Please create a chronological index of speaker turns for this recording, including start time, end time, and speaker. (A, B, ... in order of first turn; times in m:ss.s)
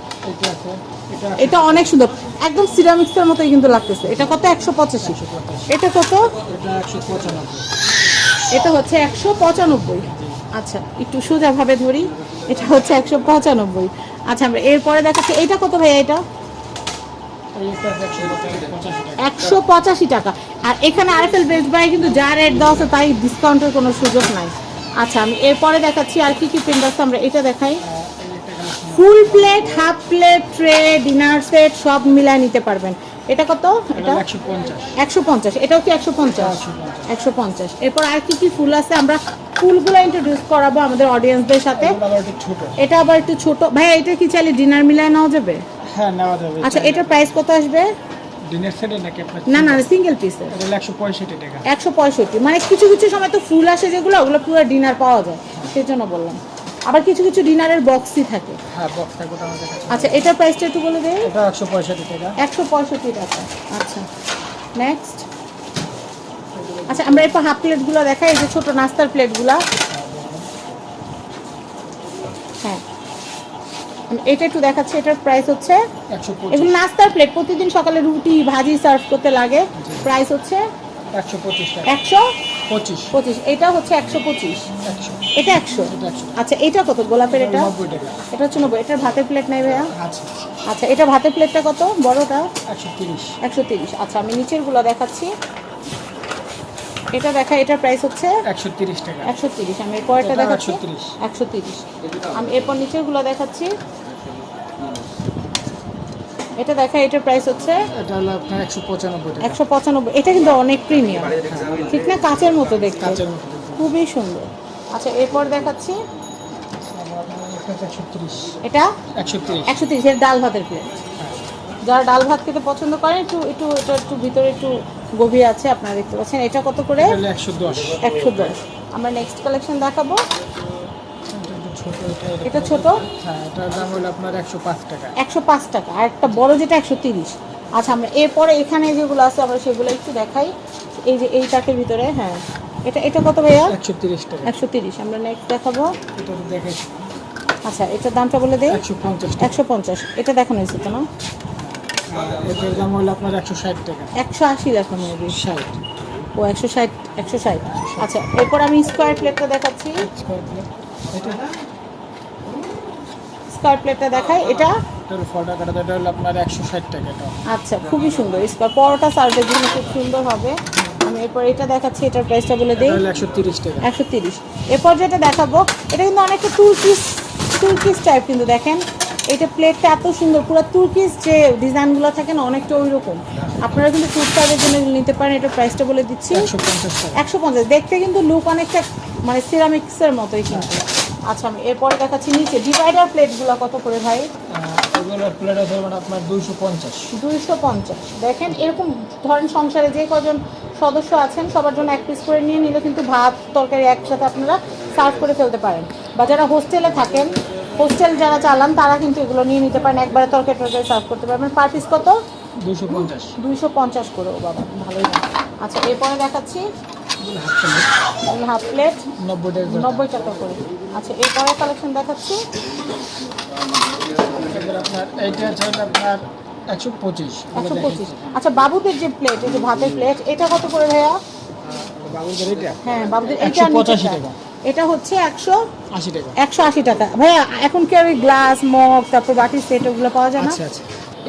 0:00.2-0:02.0 A
0:01.4-0:06.4 B
0:04.0-0:05.7 A
0:06.4-0:07.6 A
0:08.5-0:16.2 B
0:10.0-0:10.4 A
0:17.5-0:19.5 A
0:19.2-0:27.8 B
0:27.8-0:29.7 A
0:28.9-0:34.2 B
0:33.9-0:34.9 A
0:35.0-0:42.0 B
0:36.3-0:37.1 A
0:41.7-0:42.9 A
0:42.8-0:45.6 B
0:45.8-0:47.4 A
0:46.6-0:47.9 B
0:48.5-0:49.9 A
0:49.5-0:50.5 B
0:50.5-0:51.6 A
0:51.6-0:58.6 B
0:58.7-1:00.3 A
0:59.9-1:01.3 B
1:01.2-1:02.4 A
1:02.4-1:04.0 B
1:04.8-1:05.2 B
1:06.5-1:07.4 A
1:06.9-1:09.6 B
1:09.8-1:10.5 A
1:14.1-1:15.8 B
1:16.1-1:16.8 A
1:16.5-1:20.7 B
1:19.7-1:20.1 A
1:21.1-1:22.1 A
1:21.8-1:22.3 B
1:22.7-1:23.1 A
1:23.1-1:24.7 B
1:24.8-1:25.3 A
1:25.3-1:27.7 B
1:25.8-1:26.4 A
1:27.3-1:28.2 A
1:28.3-1:29.9 B
1:29.9-1:30.3 A
1:30.7-1:32.5 B
1:32.7-1:33.4 A
1:33.4-1:35.3 B
1:37.1-1:38.4 B
1:38.4-1:39.3 A
1:39.2-1:43.7 B
1:40.2-1:41.2 A
1:46.6-1:47.9 B
1:47.9-1:49.6 A
1:49.4-1:53.2 B
1:51.4-1:51.9 A
1:53.0-1:53.9 A
1:53.8-1:56.0 B
1:56.8-1:58.6 A
1:58.6-1:58.9 B
1:59.1-1:59.8 A
1:59.6-2:00.9 B
2:01.2-2:01.5 A
2:01.8-2:07.2 B
2:07.0-2:08.0 A
2:07.9-2:10.2 B
2:11.3-2:15.2 A
2:12.4-2:13.0 B
2:15.2-2:23.8 B
2:23.6-2:24.6 A
2:24.4-2:25.9 B
2:26.1-2:27.1 A
2:27.6-2:28.8 B
2:28.7-2:29.6 A
2:29.4-2:31.1 B
2:31.6-2:34.2 A
2:34.2-2:35.4 B
2:35.3-2:35.8 A
2:36.4-2:40.0 B
2:37.7-2:38.1 A
2:40.0-2:41.5 A
2:43.5-2:44.8 B
2:45.1-2:47.4 A
2:47.4-2:53.0 B
2:52.8-2:53.9 A
2:53.8-3:06.5 B
3:06.3-3:07.2 A
3:07.2-3:14.3 B
3:14.5-3:17.1 A
3:17.1-3:32.2 B
3:32.6-3:33.4 A
3:32.9-3:36.7 B
3:37.2-3:37.9 A
3:38.2-3:39.1 B
3:39.2-3:40.1 A
3:39.6-3:42.4 B
3:44.3-3:48.4 A
3:47.5-3:51.2 B
3:51.8-3:54.4 A
3:52.8-3:55.7 B
3:55.9-3:56.4 A
3:56.4-4:00.6 B
4:00.4-4:00.8 A